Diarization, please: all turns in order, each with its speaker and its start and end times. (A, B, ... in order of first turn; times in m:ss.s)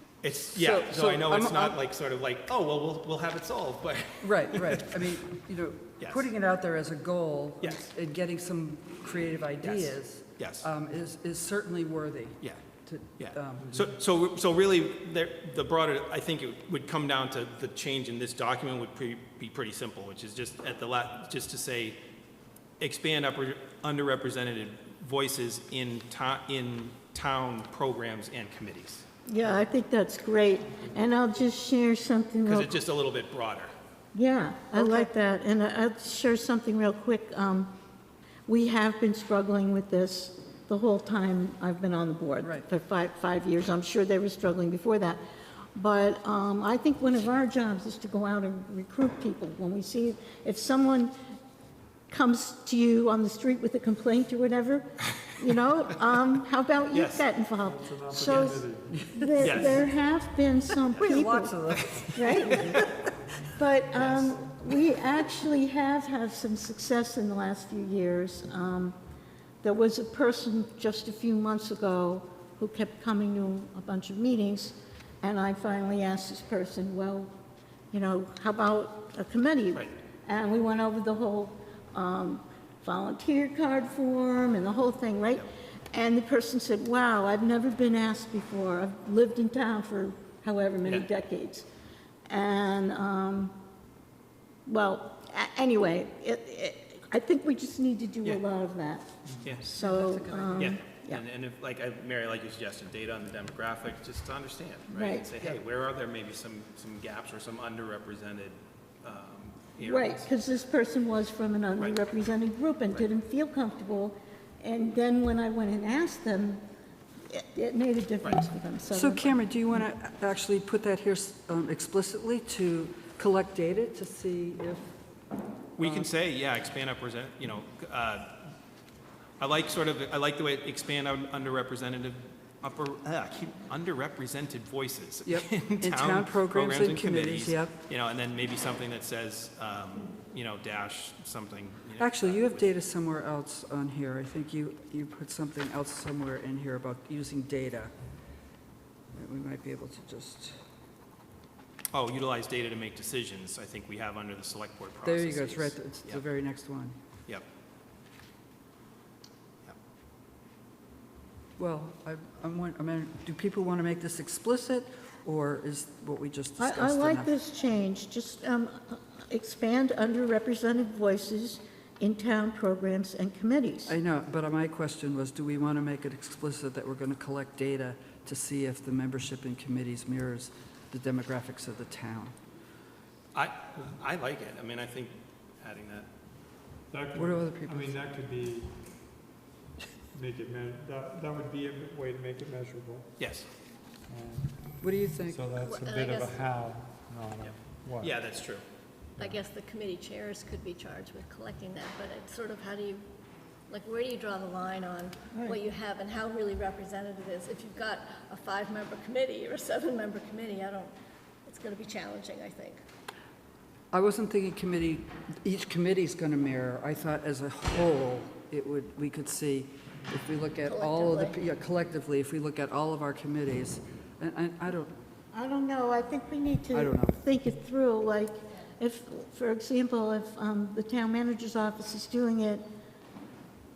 0:00.2-0:05.1 A
0:00.5-0:01.8 B
0:04.2-0:13.8 B
0:06.0-0:06.3 A
0:07.6-0:07.9 A
0:09.6-0:10.7 A
0:13.2-0:22.0 A
0:22.8-0:29.0 A
0:29.3-0:32.8 C
0:32.5-0:33.7 A
0:34.1-0:37.7 C
0:34.8-0:35.1 B
0:38.5-0:45.2 C
0:45.8-0:51.1 C
0:52.1-1:02.9 C
0:56.9-0:57.3 A
0:57.6-0:59.8 D
0:59.4-0:59.8 A
1:01.0-1:02.9 B
1:03.6-1:09.0 C
1:09.6-1:17.3 C
1:17.9-1:31.6 C
1:32.3-1:33.6 C
1:34.7-1:41.2 C
1:39.8-1:40.8 B
1:40.6-1:50.3 A
1:44.9-1:45.3 C
1:49.8-1:56.6 C
1:57.3-1:59.3 C
1:58.9-2:04.9 B
2:05.8-2:08.5 A
2:05.8-2:06.1 B
2:09.4-2:22.7 A
2:15.3-2:17.8 B
2:22.0-2:27.9 B
2:29.1-2:30.6 B
2:31.9-2:36.2 A
2:35.0-2:37.0 B
2:41.6-2:47.3 B
2:46.6-2:54.0 C
2:53.9-3:02.4 B
3:03.3-3:06.1 A
3:06.9-3:08.9 D
3:07.2-3:08.0 B
3:10.1-3:13.2 D
3:13.2-3:13.5 A
3:14.1-3:18.2 D
3:14.8-3:15.5 B
3:15.6-3:16.4 E
3:17.4-3:18.6 A
3:19.2-3:23.0 E
3:23.7-3:30.9 E
3:31.5-3:32.8 E
3:33.9-3:44.9 B
3:40.6-3:41.4 E
3:45.3-3:52.6 C
3:46.7-3:47.2 B